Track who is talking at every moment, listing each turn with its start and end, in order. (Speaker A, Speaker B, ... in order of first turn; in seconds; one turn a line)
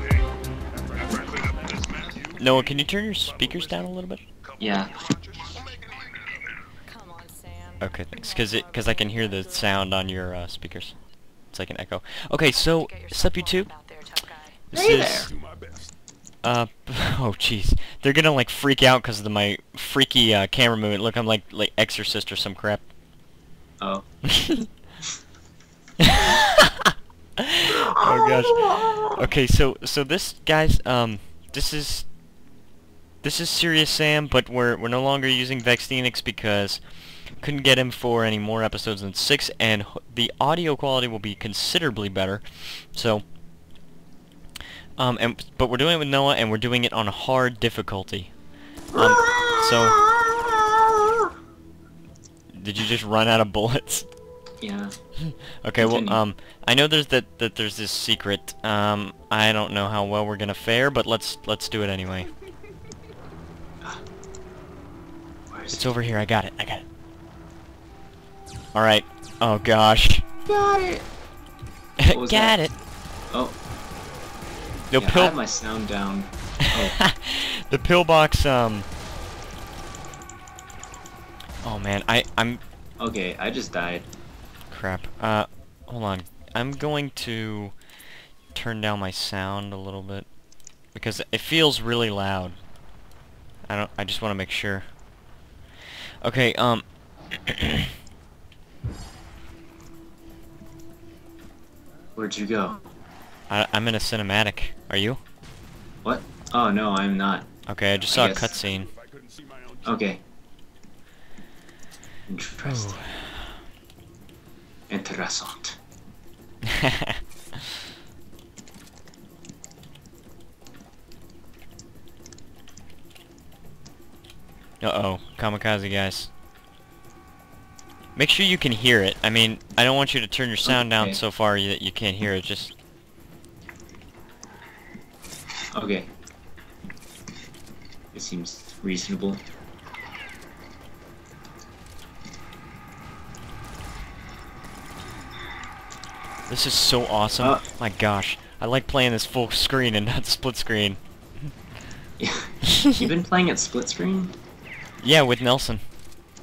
Speaker A: 2.4-4.2
Speaker B: 4.6-5.1
Speaker C: 6.8-9.9
Speaker A: 7.8-13.7
Speaker C: 12.4-14.7
Speaker A: 14.7-15.3
Speaker B: 14.7-15.3
Speaker A: 16.4-22.8
Speaker A: 24.3-24.7
Speaker A: 26.0-32.1
Speaker B: 27.8-29.2
Speaker A: 33.2-36.8
Speaker A: 37.4-43.2
Speaker A: 45.0-48.3
Speaker B: 48.9-51.3
Speaker A: 48.9-50.0
Speaker A: 52.5-54.0
Speaker B: 54.6-54.9
Speaker A: 55.2-62.3
Speaker B: 55.8-56.2
Speaker B: 65.5-65.9
Speaker A: 65.7-66.8
Speaker A: 68.7-70.2
Speaker B: 70.5-71.1
Speaker A: 72.0-72.7
Speaker B: 72.1-72.5
Speaker B: 73.3-73.6
Speaker A: 74.9-75.3
Speaker B: 75.0-77.0
Speaker A: 76.9-78.9
Speaker A: 81.6-82.6
Speaker B: 83.0-84.1
Speaker A: 84.7-87.7
Speaker A: 88.5-90.3
Speaker A: 90.9-92.5
Speaker A: 93.7-94.8
Speaker A: 96.2-97.9
Speaker B: 102.2-102.8
Speaker A: 103.5-105.2
Speaker B: 106.0-107.5
Speaker A: 107.7-108.9
Speaker B: 108.1-108.5
Speaker B: 109.8-110.2
Speaker B: 112.3-113.0
Speaker A: 112.6-113.5
Speaker B: 114.9-115.8
Speaker A: 116.6-117.2
Speaker A: 124.8-126.3
Speaker A: 128.2-132.7
Speaker B: 130.6-131.2
Speaker B: 135.7-136.1
Speaker B: 138.1-139.4
Speaker A: 146.5-151.0
Speaker B: 152.2-154.3
Speaker A: 155.0-155.8